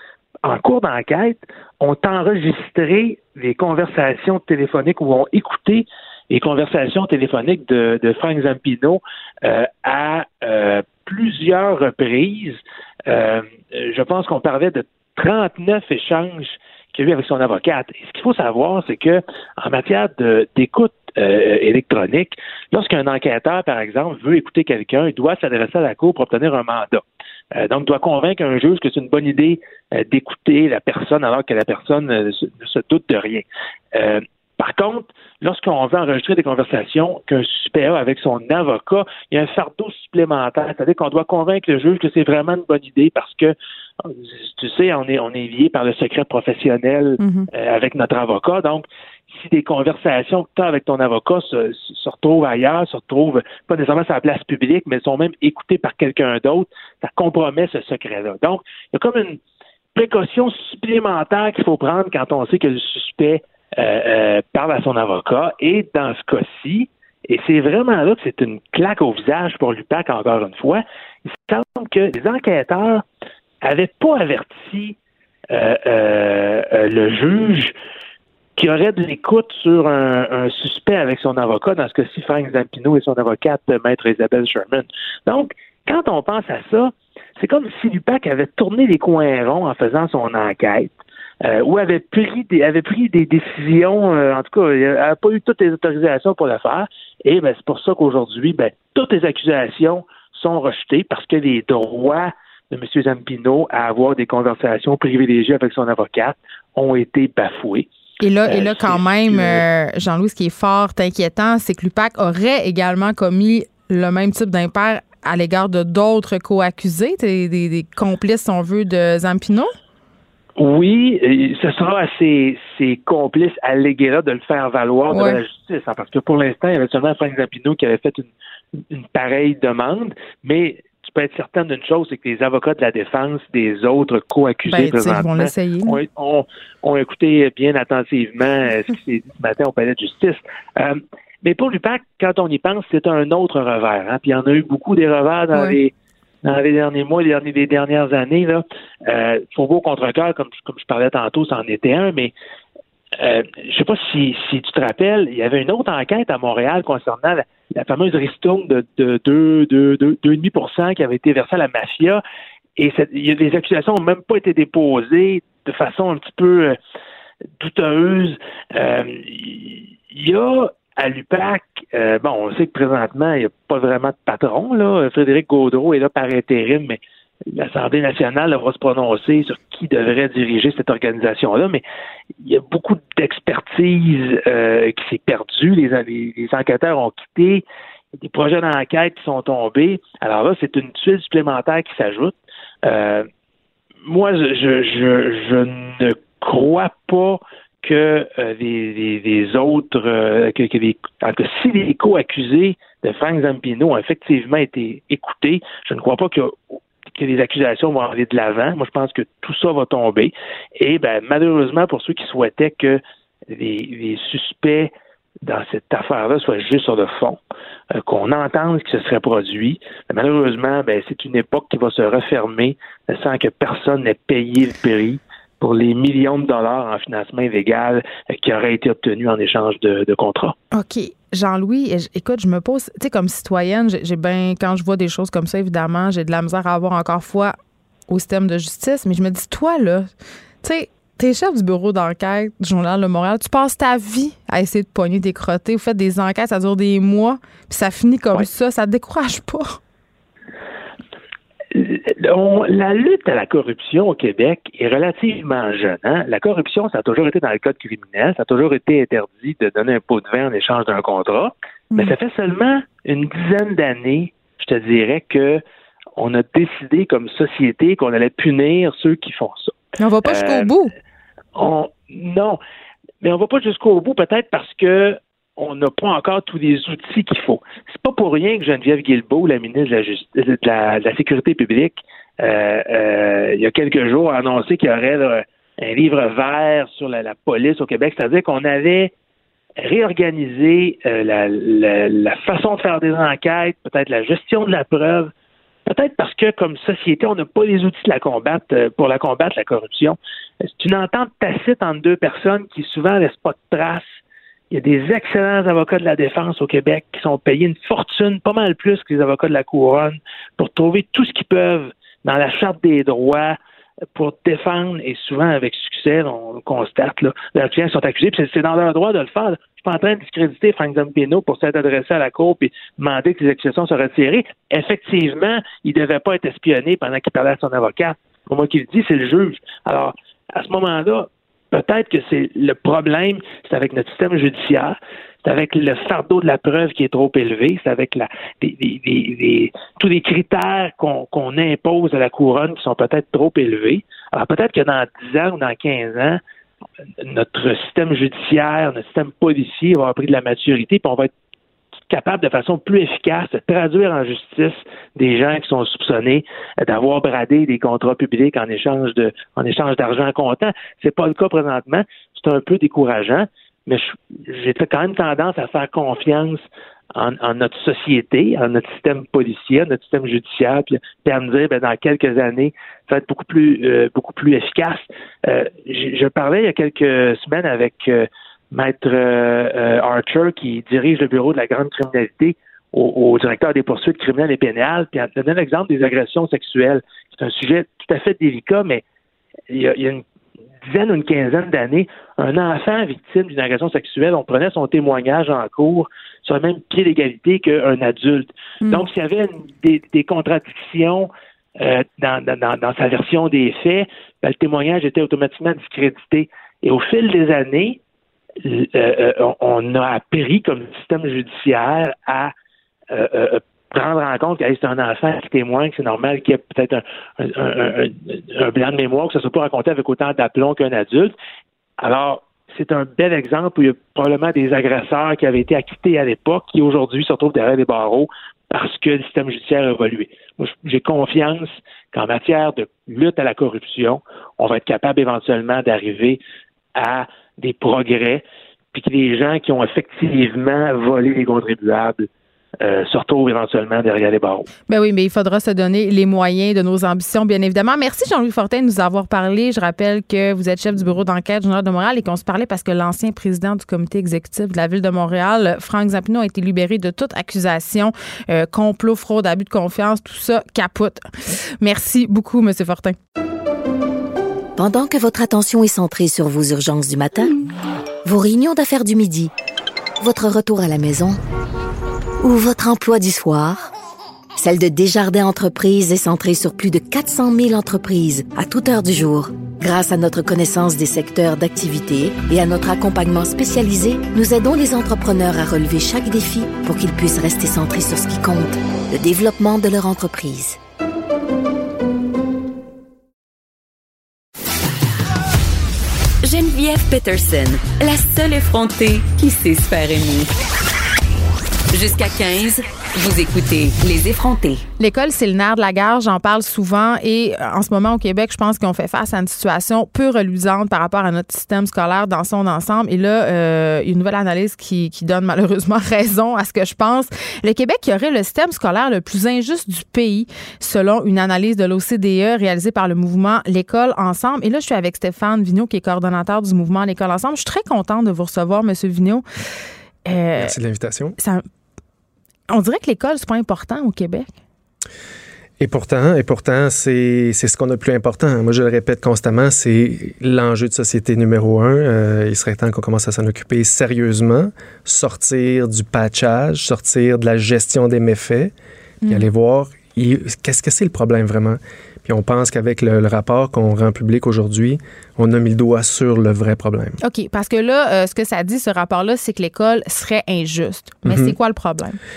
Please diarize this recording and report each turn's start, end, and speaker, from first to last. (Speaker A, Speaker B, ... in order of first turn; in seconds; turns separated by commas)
Speaker A: 0.4-27.0, Speaker A: 27.6-33.4, Speaker A: 34.0-43.5, Speaker A: 44.6-59.4, Speaker B: 47.2-47.5, Speaker A: 59.9-73.0, Speaker A: 73.6-75.0, Speaker A: 75.5-77.7, Speaker A: 78.6-107.9, Speaker B: 108.2-119.7, Speaker A: 108.5-109.6, Speaker A: 120.6-128.3, Speaker B: 125.1-125.4, Speaker A: 128.9-145.9, Speaker B: 134.7-136.0, Speaker A: 146.4-152.3, Speaker A: 153.2-162.2, Speaker A: 162.8-166.8, Speaker A: 167.6-177.0, Speaker A: 177.5-181.8, Speaker A: 182.4-187.6, Speaker A: 188.2-192.3, Speaker A: 192.8-193.3, Speaker A: 194.1-206.6, Speaker A: 207.1-213.0, Speaker A: 213.5-214.9, Speaker A: 215.4-217.4, Speaker A: 218.0-230.6, Speaker B: 230.7-237.6, Speaker B: 238.1-240.1, Speaker B: 240.6-249.8, Speaker A: 251.7-265.6, Speaker A: 266.2-269.7, Speaker B: 270.0-270.9, Speaker A: 270.2-270.7, Speaker A: 271.5-272.6, Speaker A: 273.2-289.1, Speaker A: 289.8-295.3, Speaker A: 295.9-300.2, Speaker A: 300.8-304.1, Speaker A: 304.7-313.6, Speaker A: 314.1-346.4, Speaker A: 347.2-351.3, Speaker A: 352.1-366.6, Speaker A: 367.1-389.0, Speaker A: 389.7-390.2, Speaker A: 390.9-408.0, Speaker A: 408.6-412.5, Speaker A: 413.1-421.3, Speaker A: 422.0-436.4, Speaker A: 436.9-442.3, Speaker A: 442.8-444.7, Speaker B: 444.9-461.3, Speaker B: 461.8-463.2, Speaker C: 464.8-467.6, Speaker C: 468.2-469.5, Speaker C: 470.2-471.4, Speaker C: 472.4-473.9, Speaker C: 474.6-490.8, Speaker D: 496.4-500.5, Speaker D: 501.9-504.8, Speaker B: 505.0-529.4, Speaker B: 530.2-530.7, Speaker E: 530.6-531.4, Speaker B: 531.4-531.6, Speaker B: 532.7-534.5, Speaker E: 535.8-548.7, Speaker B: 549.2-549.5, Speaker E: 549.2-557.2, Speaker B: 557.2-562.2, Speaker E: 561.2-561.5